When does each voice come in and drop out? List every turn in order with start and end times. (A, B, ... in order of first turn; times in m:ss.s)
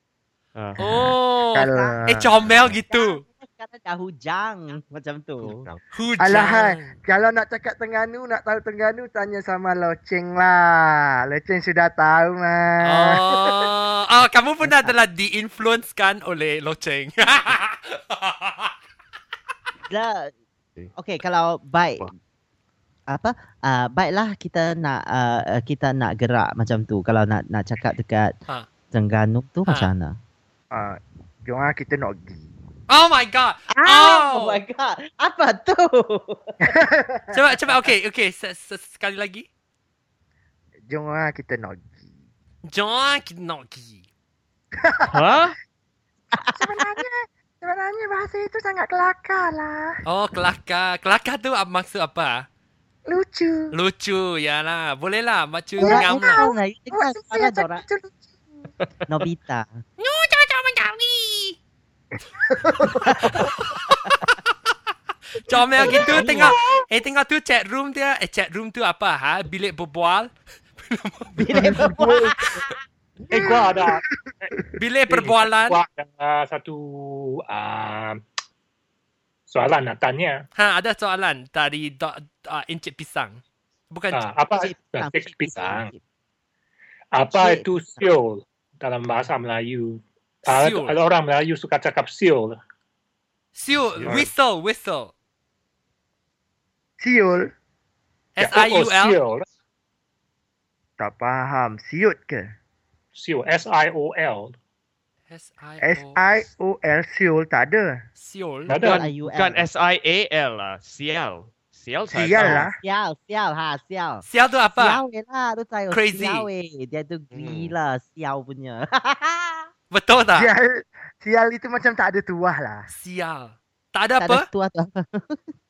0:00.8-0:03.2 A
0:00.8-0:02.3 B
0:01.7-0:01.9 C
0:02.9-0:05.6 C
0:05.4-0:05.8 D
0:05.9-0:06.9 A
0:06.2-0:13.7 B
0:12.8-0:18.7 A
0:14.6-0:14.9 C
0:19.9-0:20.3 C
0:21.0-0:22.1 C
0:23.1-0:28.3 C
0:28.9-0:30.2 C
0:30.7-0:32.5 B
0:32.9-0:34.6 A
0:33.7-0:36.8 C
0:36.6-0:37.4 B
0:37.3-0:39.4 A
0:40.9-0:42.0 B
0:42.6-0:44.0 A
0:44.8-0:45.2 B
0:45.1-0:45.6 D
0:46.3-0:47.0 C
0:46.5-0:50.0 B
0:50.0-0:52.4 A
0:53.0-0:53.7 B
0:53.7-0:56.4 A
0:55.8-0:58.2 B
0:55.8-0:57.8 C
0:59.1-0:59.8 C
1:00.0-1:01.6 A
1:02.4-1:03.5 B
1:03.0-1:03.3 C
1:05.4-1:11.4 A
1:05.8-1:06.5 C
1:05.8-1:06.5 B
1:11.4-1:12.4 C
1:11.5-1:12.6 B
1:12.4-1:12.7 A
1:13.3-1:14.8 B
1:13.3-1:14.5 E
1:14.8-1:15.8 A
1:15.1-1:18.2 E
1:19.5-1:20.4 E
1:20.6-1:24.3 A
1:24.1-1:25.9 E
1:24.6-1:26.0 C
1:27.1-1:32.6 E
1:27.3-1:28.1 C
1:30.5-1:31.0 A
1:33.6-1:35.1 A
1:34.0-1:34.3 D
1:34.0-1:34.3 E
1:37.0-1:37.5 B
1:38.4-1:39.2 A
1:38.4-1:39.4 E
1:41.0-1:42.5 B
1:43.2-1:44.6 E
1:45.3-1:46.2 A
1:45.8-1:48.0 B
1:48.2-1:48.8 A
1:48.7-1:49.0 E
1:48.8-1:52.6 D
1:48.8-1:49.7 C
1:52.1-1:52.8 B
1:52.4-1:54.2 C
1:54.2-1:55.0 A
1:54.8-1:59.7 C
1:55.9-1:56.5 A
1:57.3-1:57.7 D
1:59.9-2:00.5 A
2:00.3-2:02.9 B
2:02.9-2:04.4 A
2:04.2-2:05.4 C